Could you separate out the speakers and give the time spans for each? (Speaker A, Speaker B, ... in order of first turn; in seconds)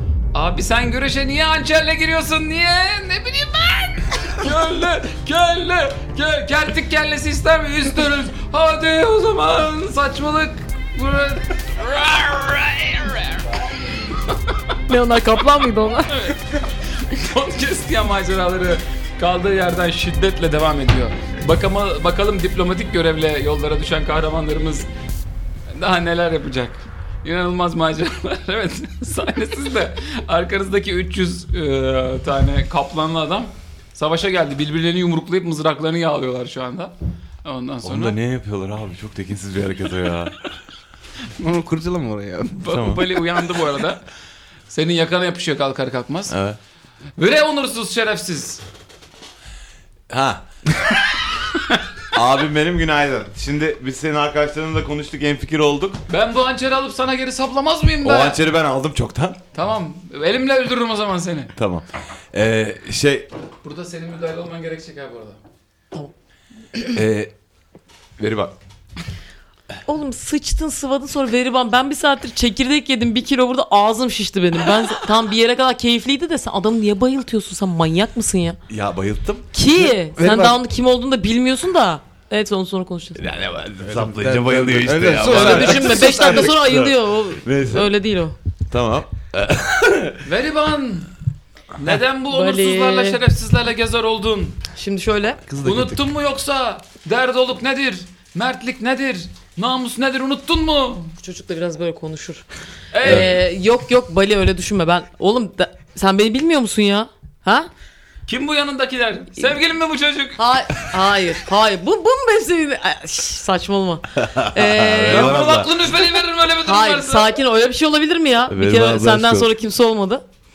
Speaker A: 0.3-13.5, 16.1-24.9, 25.7-38.2, 42.5-44.0, 44.7-46.3, 47.2-48.6, 56.1-58.4, 59.5-61.5, 63.6-65.4, 90.2-91.1, 91.8-94.6, 95.6-101.2, 102.9-103.4, 108.3-110.8, 115.0-117.3
Speaker B: 14.9-16.2, 69.8-78.6, 79.5-83.3, 85.2-88.3, 92.3-93.2, 94.8-95.4, 101.2-102.4, 103.0-107.7, 110.4-115.4, 116.6-120.2
Speaker C: 37.8-40.5, 42.7-43.0, 46.3-46.6, 50.1-50.5, 52.1-56.0, 58.0-59.4, 61.5-63.3, 66.9-67.3, 68.2-68.5, 78.7-79.5, 83.2-87.9, 88.7-90.2, 114.2-115.8, 118.5-119.5
Speaker D: 41.4-42.7, 79.7-80.6, 83.8-86.8, 95.5-96.0